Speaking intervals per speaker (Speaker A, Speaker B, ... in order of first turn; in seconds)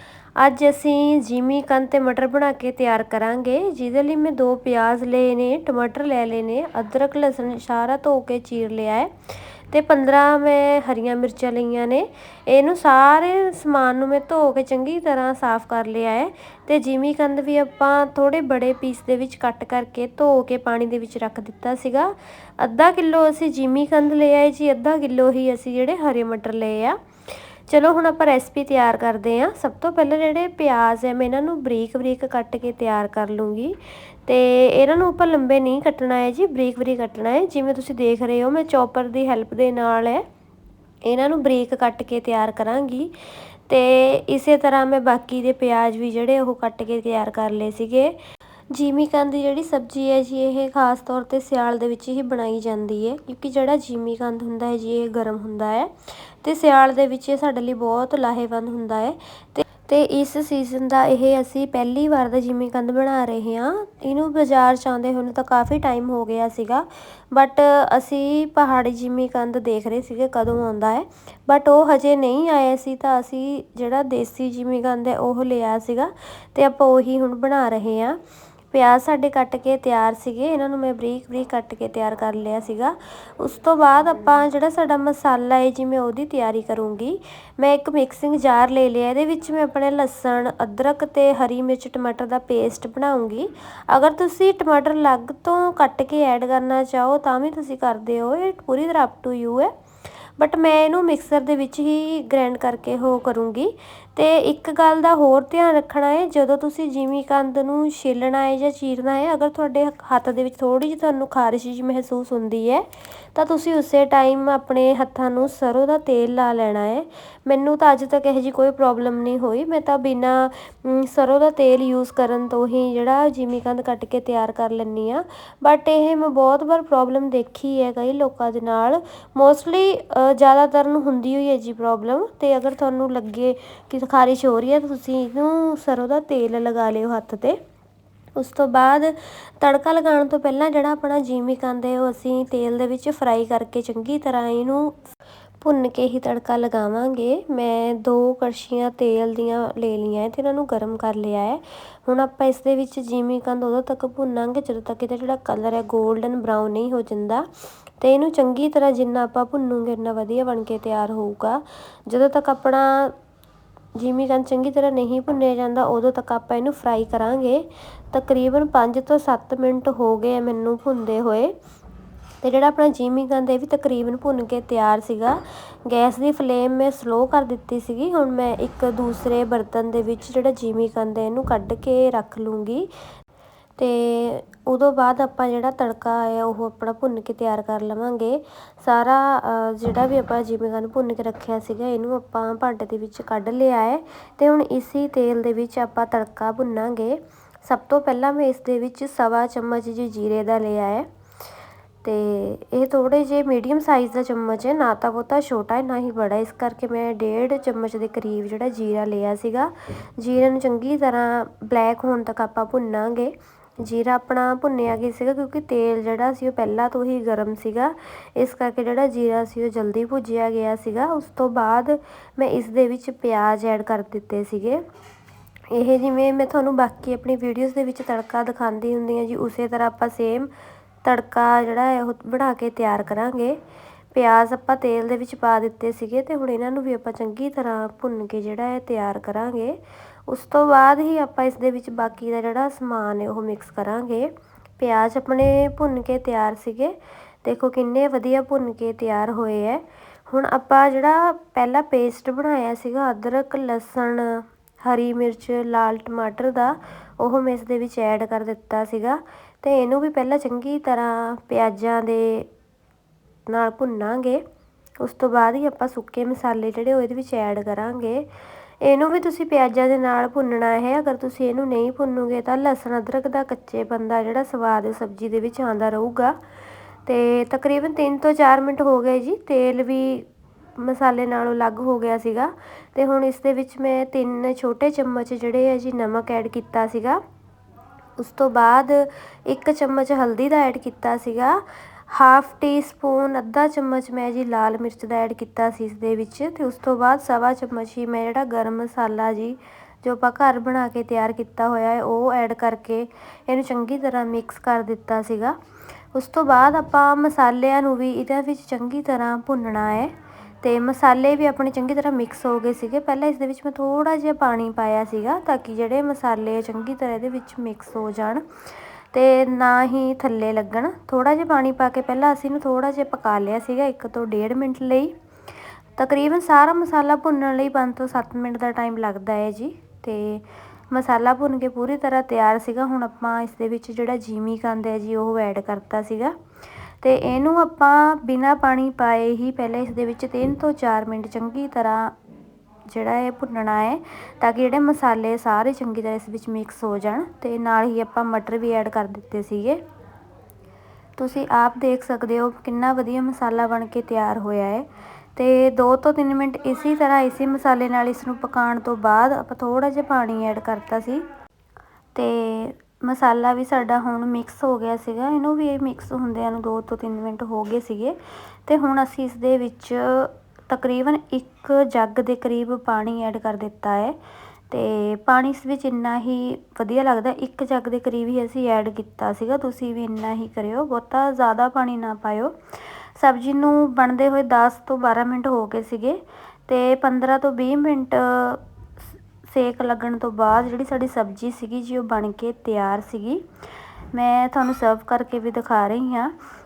Speaker A: 0.4-27.0, 27.7-40.2, 41.0-43.1, 43.7-48.2, 48.7-78.2, 78.7-99.7, 100.4-137.6, 138.4-145.1, 145.6-157.5, 158.0-163.1, 164.0-171.5, 172.4-182.9, 183.8-201.1, 202.0-224.8, 225.7-230.5, 231.0-233.6, 234.1-239.8, 240.3-262.5, 263.5-264.4, 265.0-268.2, 268.8-276.4, 277.1-287.2, 288.2-291.6, 292.1-305.6, 306.1-318.4, 319.1-325.1, 326.0-336.3, 337.0-342.1, 342.9-349.8, 351.2-361.2, 362.1-374.2, 374.7-382.5, 383.2-388.6, 389.4-393.4, 394.1-396.4